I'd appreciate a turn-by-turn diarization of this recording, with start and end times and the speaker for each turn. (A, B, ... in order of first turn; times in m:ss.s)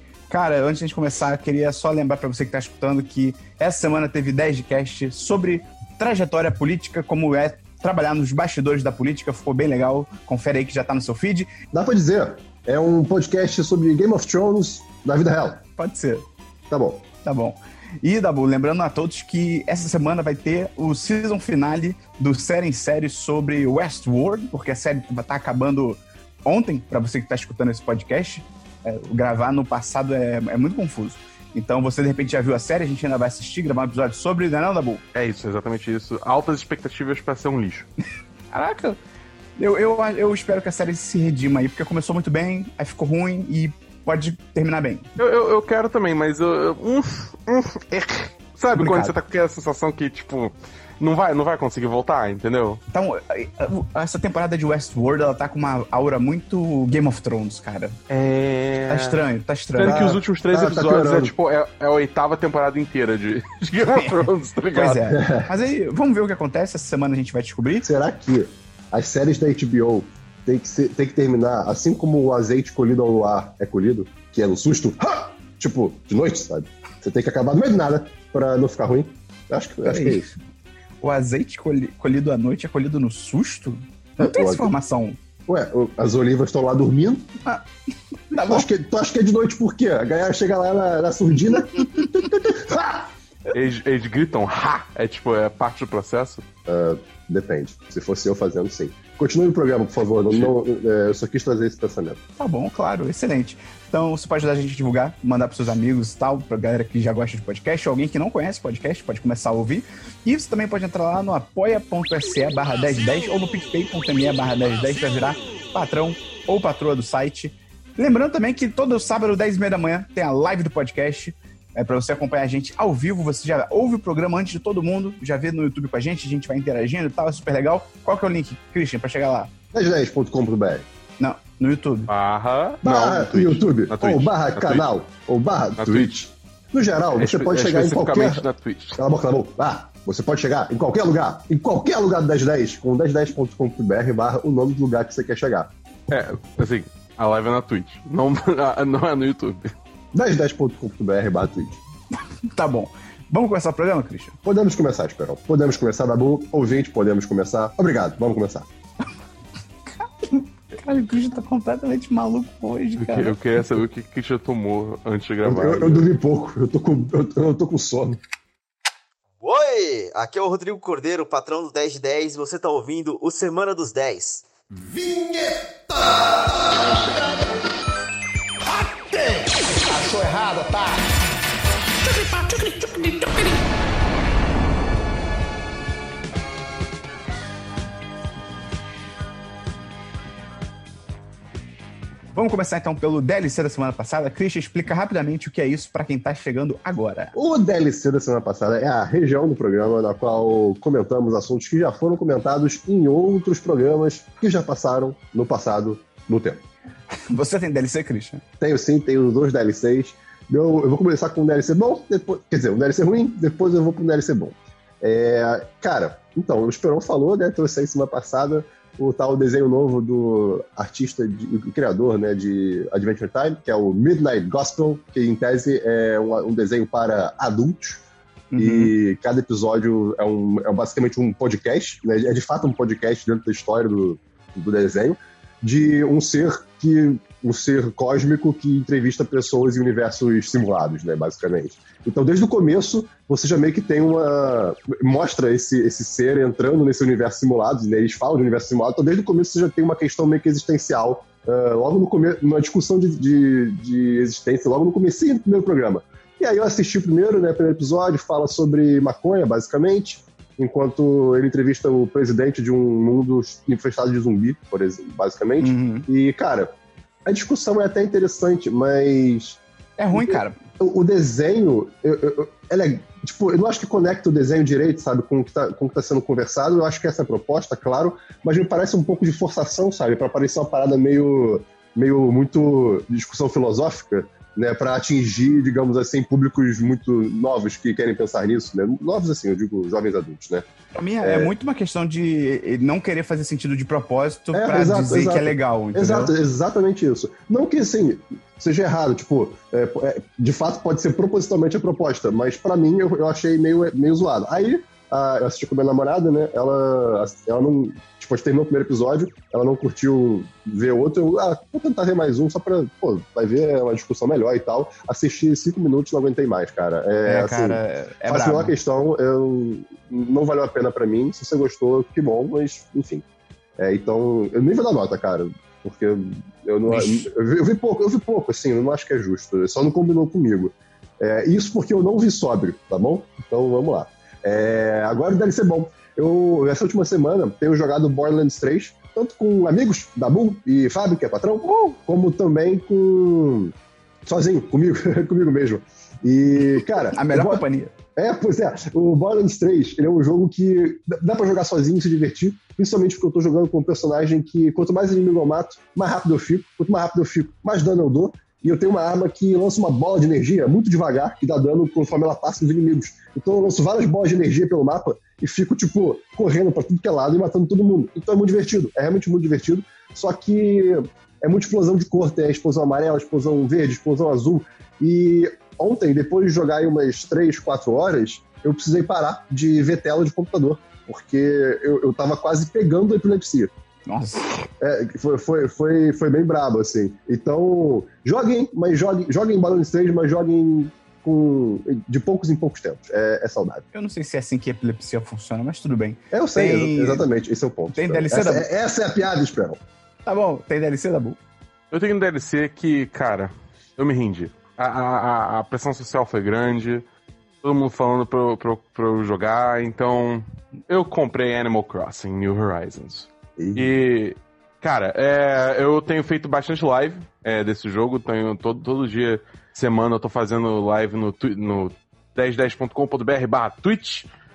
0:00.3-0:11.5 A
0:11.7-0:15.6 B
0:15.8-0:16.2 A
0:16.7-0:17.0 B
0:17.2-0:35.0 A
0:35.2-0:37.9 C
0:38.5-0:39.0 A
0:39.6-0:45.1 A
0:45.2-0:52.8 C
0:48.8-0:49.1 A
0:52.9-0:58.0 A
0:58.1-0:59.2 C
0:58.9-1:00.0 A
0:59.8-1:05.2 C
0:59.8-1:01.3 B
1:04.7-1:07.9 A
1:05.1-1:05.5 B
1:07.8-1:20.3 B
1:19.8-1:20.4 A
1:21.0-1:25.2 A
1:24.2-1:24.7 B
1:25.5-1:27.4 B
1:28.3-1:28.7 A
1:28.4-1:33.1 B
1:33.5-1:36.4 C
1:36.7-1:42.2 B
1:42.4-2:09.5 A
2:09.7-2:10.8 B
2:11.2-2:12.1 A
2:12.1-2:14.8 C
2:12.8-2:18.5 B
2:15.8-2:16.1 C
2:17.2-2:19.0 C
2:19.0-2:25.7 B
2:26.1-2:29.7 C
2:30.1-2:31.8 B
2:32.5-2:34.4 A
2:34.4-2:38.7 B
2:40.0-2:43.4 A
2:43.0-2:46.1 C
2:45.4-2:48.2 B
2:49.4-2:57.5 D
2:58.7-3:01.1 D
3:02.3-3:03.5 D
3:12.3-3:17.3 A
3:17.3-3:26.6 B
3:27.3-3:28.4 A
3:28.6-3:48.0 B
3:48.5-3:48.9 A
3:48.6-4:26.7 B
4:25.6-4:26.1 A
4:27.2-4:29.6 B
4:30.0-4:30.6 A
4:30.1-4:50.7 B
4:50.9-4:56.3 A
4:51.2-4:51.5 B
4:54.5-5:23.2 B
5:17.2-5:18.7 A
5:23.8-5:43.7 B
5:26.9-5:27.3 A
5:44.2-5:47.6 B
5:47.1-5:47.9 A
5:48.2-6:23.7 B
6:24.1-6:24.5 A
6:24.8-6:33.8 B
6:33.9-6:37.2 A
6:36.3-6:39.8 B
6:37.9-6:38.7 A
6:40.2-6:41.4 A
6:41.9-6:47.0 C
6:47.6-7:04.3 C
6:53.6-6:54.0 B